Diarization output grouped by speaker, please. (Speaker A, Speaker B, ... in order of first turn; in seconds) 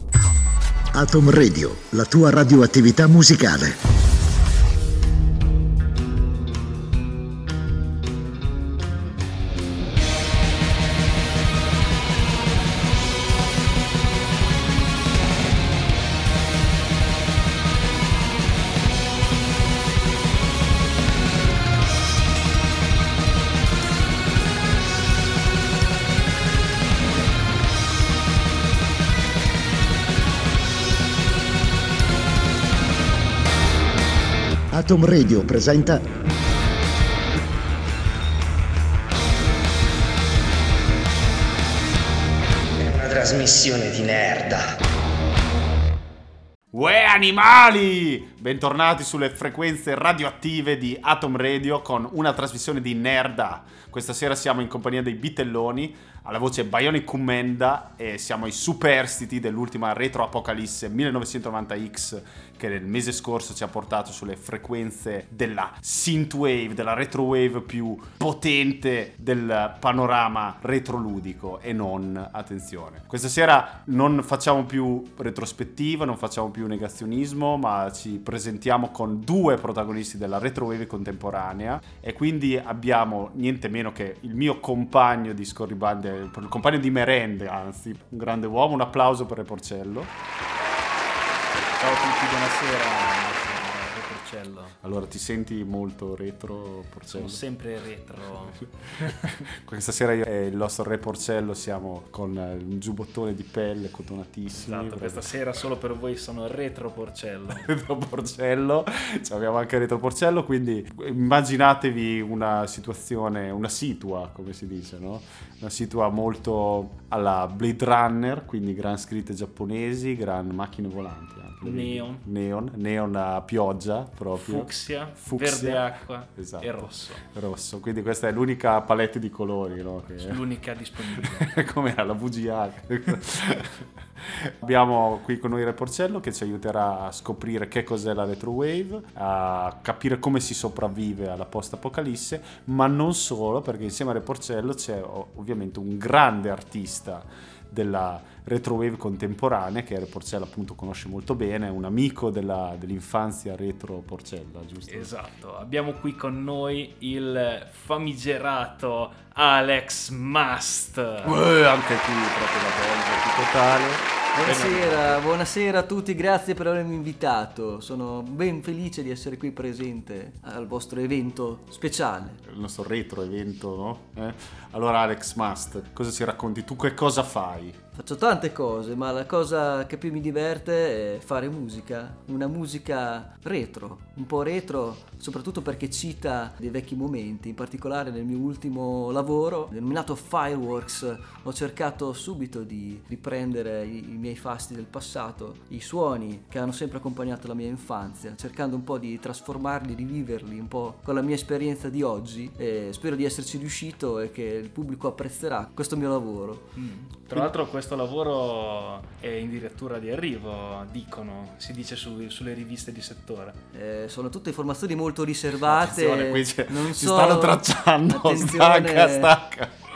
Speaker A: 0.9-3.8, 34.7-36.0
Speaker B: 42.8-44.8
Speaker C: 46.7-90.1, 94.8-97.4, 99.0-105.3, 107.5-130.4, 131.2-155.1, 161.2-165.2, 172.5-177.8, 215.7-219.7
Speaker D: 91.8-94.8, 97.1-99.4, 104.6-107.7, 121.6-122.2, 124.4-127.2, 130.2-131.6, 154.9-161.3, 206.8-213.6
Speaker E: 164.4-172.4, 177.9-206.7, 213.7-219.3